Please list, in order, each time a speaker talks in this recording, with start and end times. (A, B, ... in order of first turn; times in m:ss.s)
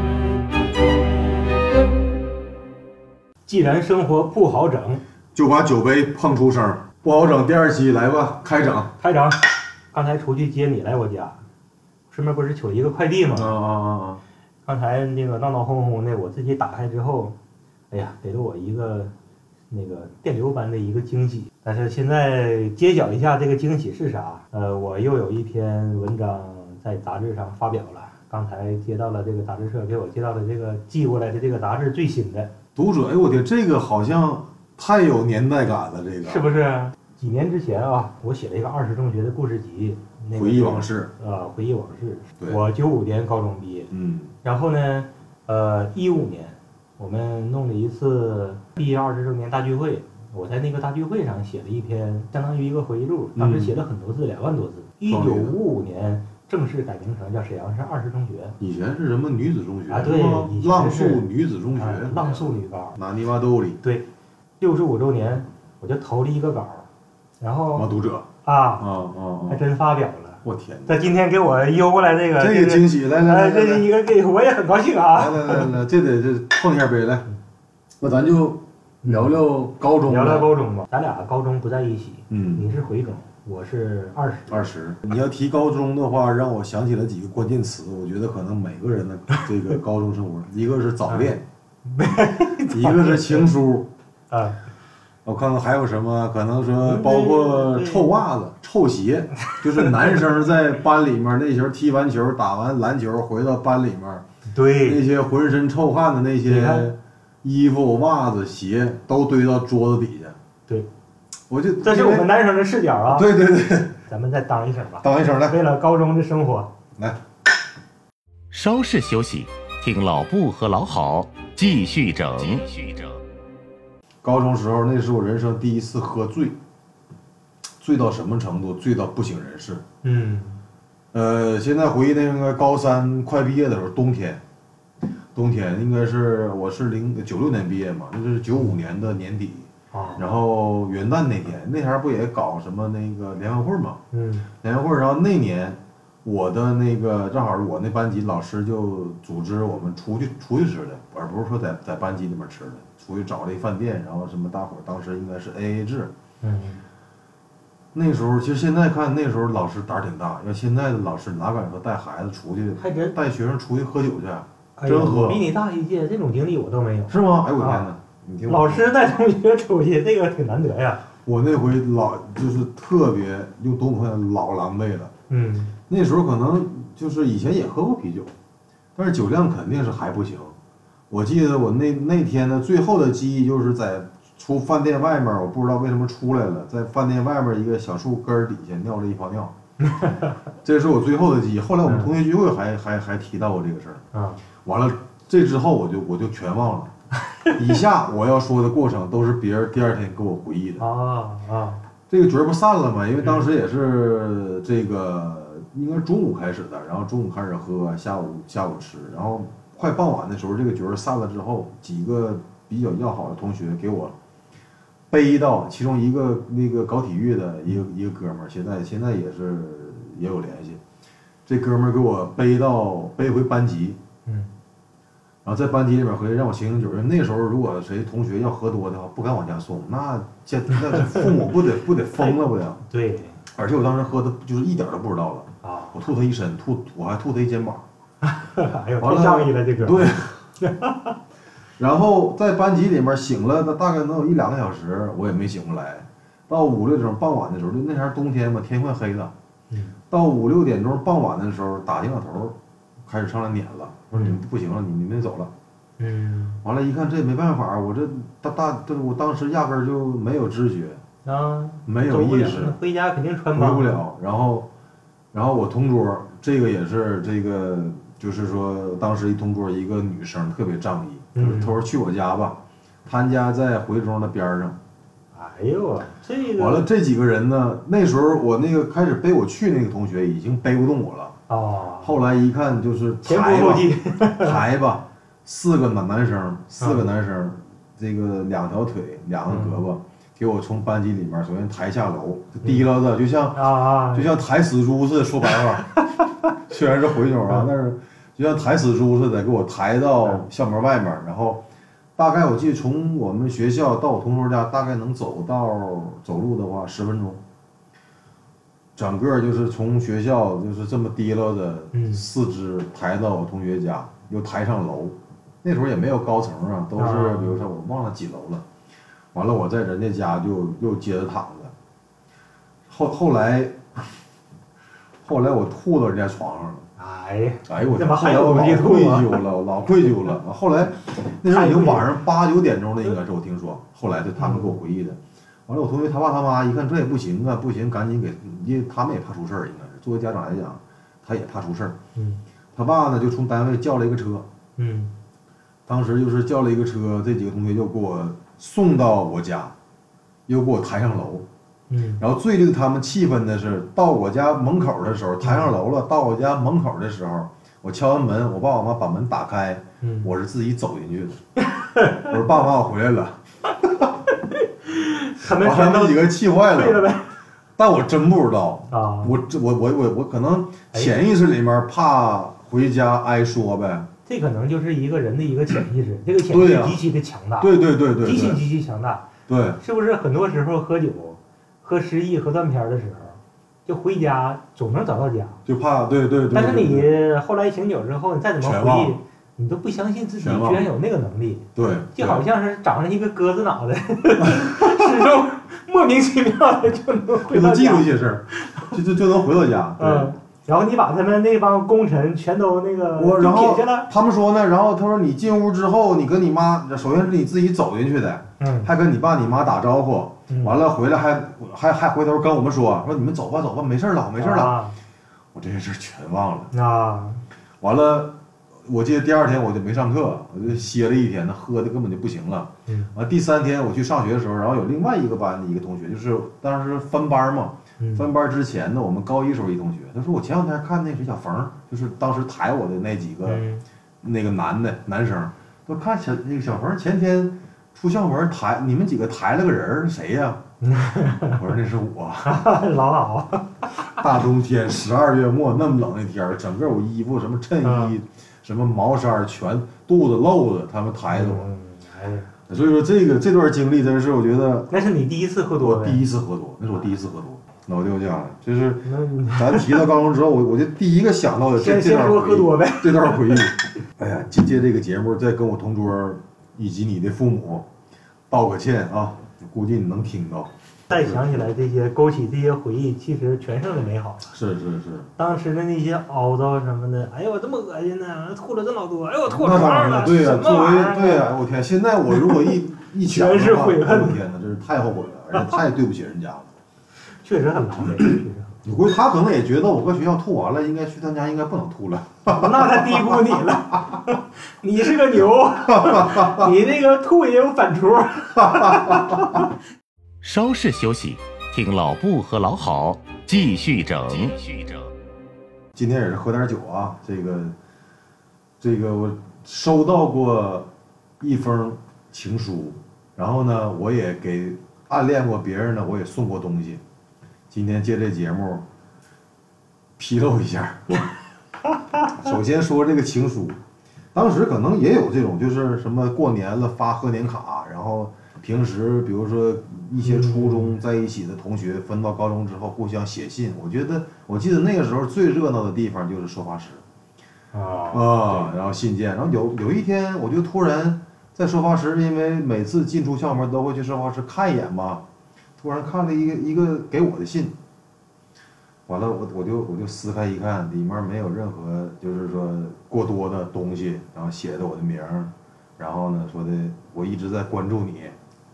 0:03.5-0:05.0 A
0:05.3-0:08.9 B
0:09.0-0:09.4 A
0:09.9-0:11.4 A
0:12.1-0:13.6 A
0:13.3-0:14.2 B
0:14.7-0:17.4 A
0:17.9-0:19.1 A
0:19.7-0:32.5 A
0:32.8-0:36.4 B
0:36.2-0:43.9 A
0:40.4-0:41.1 B
0:43.9-0:44.3 B
0:44.4-0:58.6 A
0:53.4-0:53.8 B
0:55.1-0:55.6 B
0:58.6-1:03.8 B
0:59.9-1:01.2 A
1:01.8-1:03.0 A
1:04.6-1:06.9 A
1:07.4-1:07.9 A
1:07.8-1:08.3 B
1:08.4-1:08.9 A
1:08.8-1:09.6 B
1:09.5-1:15.7 A
1:10.4-1:11.0 B
1:12.4-1:13.9 B
1:15.2-1:17.3 B
1:18.0-1:20.5 B
1:19.0-1:19.4 A
1:20.0-1:24.6 A
1:22.3-1:22.7 B
1:24.5-1:31.4 B
1:31.1-1:31.4 A
1:31.9-1:33.5 A
1:32.7-1:33.9 B
1:34.3-1:34.6 A
1:35.2-1:44.2 B
1:36.8-1:38.1 A
1:44.5-1:45.0 A
1:44.8-1:50.4 B
1:46.5-1:46.9 A
1:51.5-1:52.3 B
1:51.8-1:53.3 A
1:53.1-1:54.0 B
1:54.1-1:56.7 A
1:55.0-1:55.6 B
1:58.5-2:03.2 C
2:04.2-2:06.6 B
2:07.8-2:09.8 B
2:10.0-2:10.6 A
2:11.1-2:14.4 B
2:15.4-2:24.0 B
2:19.9-2:20.2 A
2:24.1-2:24.5 A
2:24.6-2:36.1 B
2:36.4-2:36.8 A
2:37.9-2:45.4 B
2:42.8-2:43.2 A
2:44.8-2:47.9 A
2:47.1-2:48.9 B
2:48.5-2:51.0 A
2:51.2-2:55.1 B
2:55.3-2:55.7 A
2:55.9-2:58.3 B
2:59.0-3:00.6 B
3:01.1-3:09.5 B
3:09.8-3:10.3 A
3:10.6-3:14.0 B
3:11.8-3:12.1 A
3:14.1-3:14.4 A
3:14.6-3:16.9 B
3:17.5-3:20.8 B
3:20.8-3:21.8 A
3:22.1-3:34.2 B
3:35.1-3:40.8 B
3:41.5-3:44.0 B
3:44.3-3:44.5 A
3:45.4-3:52.8 B
3:50.9-3:51.3 A
3:52.2-3:53.4 A
3:53.5-3:57.8 B
3:55.6-3:55.9 A
3:58.2-4:01.2 A
3:59.0-4:00.4 B
4:01.8-4:09.3 B
4:09.7-4:10.0 A
4:10.1-4:15.5 B
4:14.1-4:14.4 A
4:16.0-4:16.6 A
4:16.6-4:21.0 B
4:21.2-4:24.0 A
4:21.9-4:22.8 B
4:23.5-4:24.7 B
4:25.3-4:34.8 B
4:31.4-4:31.8 A
4:35.3-4:36.9 A
4:36.6-4:41.4 B
4:41.5-4:42.2 A
4:42.0-4:53.6 B
4:43.2-4:44.6 A
4:46.8-4:47.1 A
4:49.5-4:49.8 A
4:53.6-4:54.4 A
4:54.1-4:55.9 B
4:56.7-5:01.6 B
5:02.2-5:07.4 B
5:09.0-5:18.6 B
5:11.9-5:12.2 A
5:17.0-5:17.6 A
5:19.3-5:21.7 B
5:22.9-5:24.1 B
5:25.2-5:26.9 B
5:27.0-5:29.4 A
5:27.7-5:42.0 B
5:31.5-5:32.1 A
5:34.4-5:34.8 A
5:42.2-5:42.4 A
5:42.7-5:44.5 B
5:44.8-5:45.1 A
5:45.9-5:49.7 B
5:50.5-5:51.5 B
5:51.9-5:52.2 A
5:52.2-6:01.4 B
5:55.4-5:55.7 A
6:00.0-6:00.3 A
6:01.6-6:02.3 A
6:02.2-6:04.1 B
6:04.4-6:07.3 A
6:05.5-6:07.1 B
6:07.8-6:14.1 B
6:08.9-6:09.4 A
6:14.3-6:19.2 A
6:16.5-6:17.0 B
6:17.6-6:18.6 B
6:19.5-6:19.8 B
6:19.8-6:25.6 A
6:25.7-6:27.1 B
6:26.5-6:38.1 A
6:28.6-6:29.2 B
6:30.4-6:30.9 B
6:31.8-6:32.4 B
6:34.6-6:35.0 B
6:37.5-6:40.4 B
6:38.6-6:38.9 A
6:40.0-6:44.1 A
6:43.2-6:54.8 B
6:48.6-6:48.9 A
6:50.5-6:50.8 A
6:54.4-6:55.0 A
6:55.5-6:56.7 B
6:56.7-6:57.4 A
6:57.8-7:13.6 B
7:02.9-7:03.1 A
7:08.0-7:08.3 A
7:13.4-7:13.8 A
7:14.2-7:20.6 B
7:20.8-7:21.6 A
7:21.6-7:22.6 B
7:22.4-7:23.9 A
7:24.1-7:31.7 B
7:27.8-7:28.2 A
7:31.3-7:32.5 A
7:32.7-7:34.9 B
7:34.9-7:36.2 A
7:35.8-7:47.9 B
7:39.0-7:40.1 A
7:41.8-7:43.7 A
7:48.5-7:51.7 B
7:51.1-7:54.4 A
7:54.5-7:55.3 B
7:55.4-8:01.5 A
7:59.5-8:06.7 B
8:03.2-8:04.4 A
8:07.4-8:08.8 A
8:08.8-8:13.6 B
8:12.5-8:19.7 A
8:15.9-8:16.7 B
8:18.6-8:19.4 B
8:20.4-8:25.1 C
8:26.0-8:27.8 B
8:28.8-8:37.0 B
8:37.7-8:38.8 B
8:40.2-8:41.2 B
8:42.2-8:43.8 B
8:44.3-8:57.0 B
8:50.2-8:51.0 A
8:57.7-8:58.6 A
8:58.1-9:05.2 B
9:05.8-9:07.8 B
9:09.1-9:18.4 B